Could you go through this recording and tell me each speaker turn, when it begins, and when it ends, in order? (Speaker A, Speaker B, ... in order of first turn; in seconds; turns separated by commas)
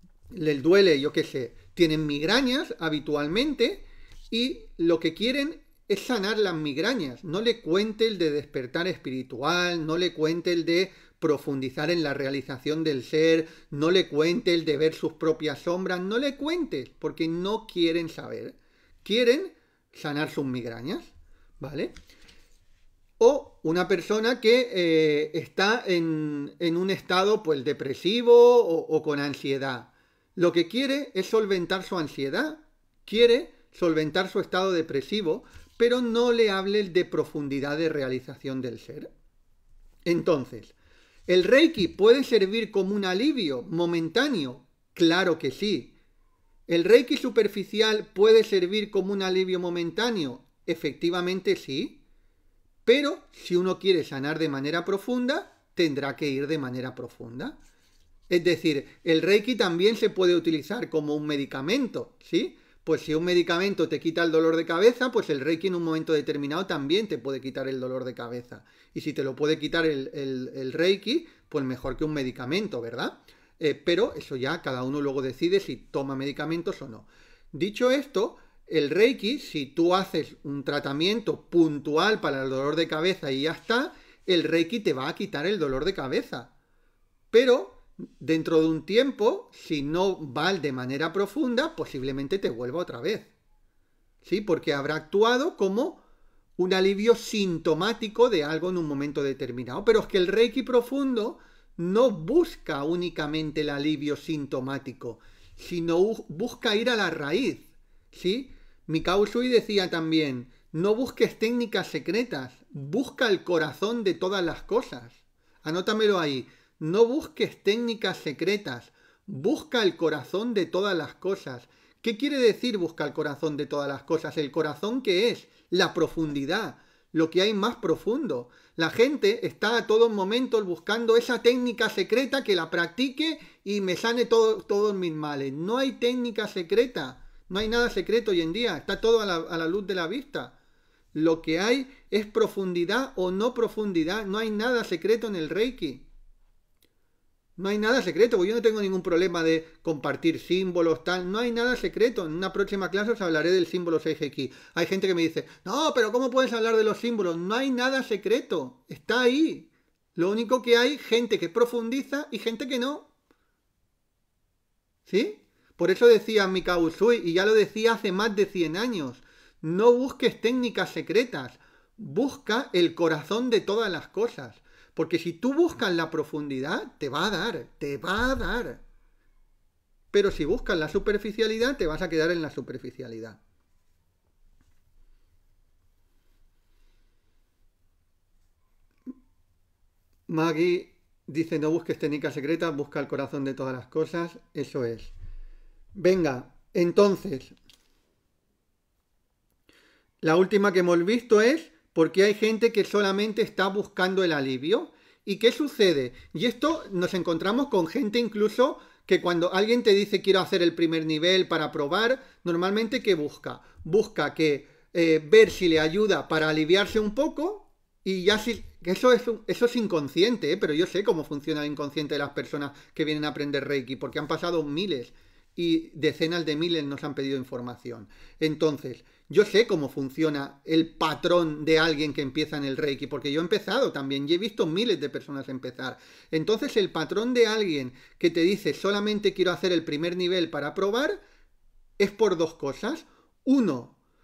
Speaker A: 0.3-21.9, Speaker A: 23.2-39.1, Speaker A: 40.0-40.7, Speaker A: 41.3-45.9, Speaker A: 46.7-52.0, Speaker A: 52.8-57.5, Speaker A: 58.3-86.5, Speaker A: 87.3-93.3, Speaker A: 94.2-96.0, Speaker A: 96.6-140.5, Speaker A: 141.1-146.1, Speaker A: 147.6-163.1, Speaker A: 165.1-178.8, Speaker A: 180.1-183.4, Speaker A: 190.3-195.1, Speaker A: 195.9-197.6, Speaker A: 200.2-241.2, Speaker A: 242.0-243.9